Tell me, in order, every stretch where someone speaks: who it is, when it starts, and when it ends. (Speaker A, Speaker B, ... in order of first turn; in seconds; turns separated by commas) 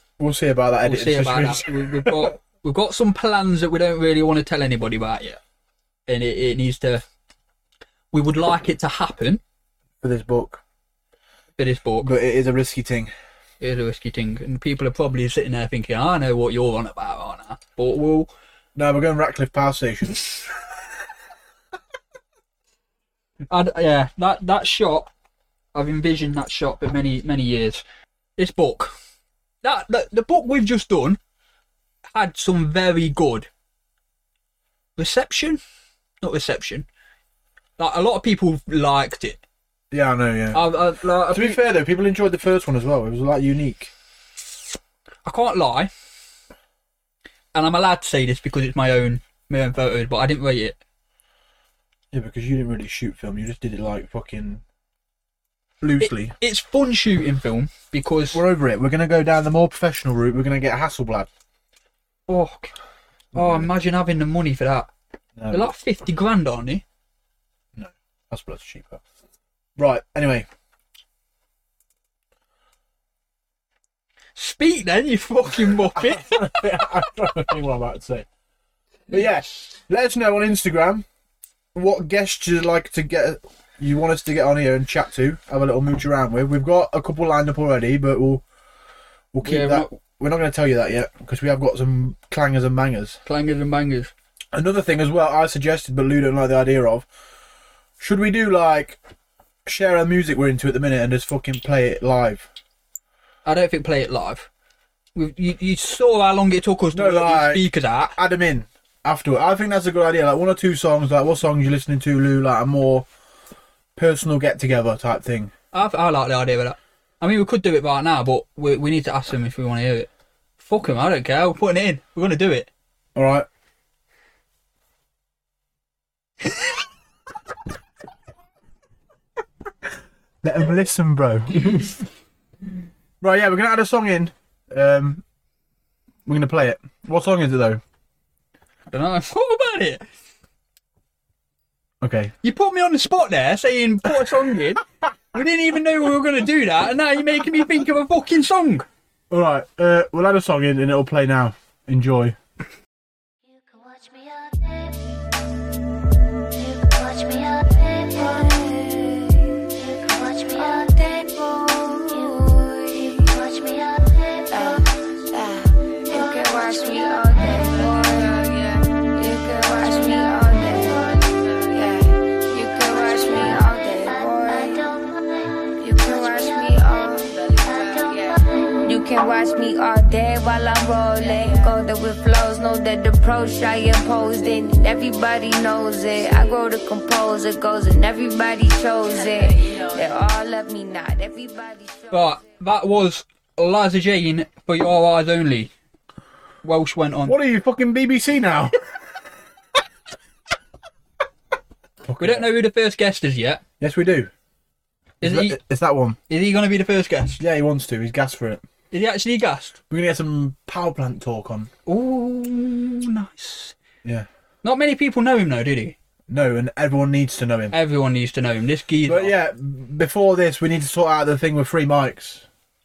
Speaker A: 0.2-2.3, Speaker B: 0.8-5.4, Speaker B: 6.1-7.0, Speaker B: 8.1-9.4, Speaker A: 10.0-10.6, Speaker B: 11.6-12.1, Speaker A: 12.0-13.1, Speaker B: 13.6-18.3, Speaker A: 18.8-20.5, Speaker B: 23.5-25.1, Speaker B: 25.7-27.8, Speaker B: 28.4-28.9, Speaker B: 29.6-31.2, Speaker B: 32.1-33.5, Speaker B: 35.0-35.6, Speaker B: 36.2-36.9, Speaker B: 37.8-39.4, Speaker A: 39.9-40.7, Speaker B: 40.5-41.6, Speaker A: 41.3-43.9, Speaker B: 45.2-45.9, Speaker B: 47.5-50.8, Speaker A: 52.1-54.6, Speaker A: 55.8-56.4, Speaker B: 56.0-58.4, Speaker A: 58.3-61.3, Speaker B: 62.3-62.7, Speaker A: 63.4-63.7, Speaker B: 63.4-64.9, Speaker A: 65.4-65.7, Speaker B: 65.5-66.8, Speaker A: 67.8-69.0, Speaker A: 69.8-70.5, Speaker B: 74.4-76.7, Speaker A: 75.9-78.3, Speaker A: 79.1-81.0, Speaker A: 81.7-88.4, Speaker A: 89.3-93.2, Speaker B: 89.4-90.0, Speaker B: 93.3-94.1, Speaker A: 94.5-97.1, Speaker A: 98.0-99.0, Speaker A: 99.7-102.5, Speaker B: 103.5-104.5, Speaker B: 105.2-108.2, Speaker A: 106.9-113.1, Speaker A: 114.0-115.5, Speaker B: 115.7-122.7, Speaker A: 123.2-123.5, Speaker A: 130.4-132.0, Speaker A: 133.2-135.2, Speaker A: 136.3-137.8, Speaker B: 138.9-140.0, Speaker A: 142.0-142.3, Speaker B: 142.4-148.9, Speaker A: 149.3-152.4, Speaker C: 153.4-155.1, Speaker C: 156.5-159.1, Speaker D: 158.3-159.5, Speaker C: 159.7-161.4, Speaker D: 160.7-163.3, Speaker C: 162.1-165.0, Speaker D: 164.5-174.9, Speaker C: 166.1-168.1, Speaker C: 170.6-171.2, Speaker C: 172.7-179.1, Speaker D: 175.8-192.4, Speaker C: 181.4-181.7, Speaker B: 192.1-195.7, Speaker B: 196.6-197.4, Speaker A: 197.3-198.8, Speaker A: 202.1-202.5, Speaker B: 202.2-203.6, Speaker A: 203.8-204.3, Speaker B: 205.2-205.6, Speaker A: 205.2-206.2, Speaker B: 206.3-207.4, Speaker A: 207.4-208.6, Speaker B: 208.9-209.8, Speaker A: 209.9-211.7, Speaker B: 211.9-213.8, Speaker B: 214.6-216.0, Speaker A: 216.3-217.8, Speaker B: 217.7-219.3, Speaker A: 219.1-222.4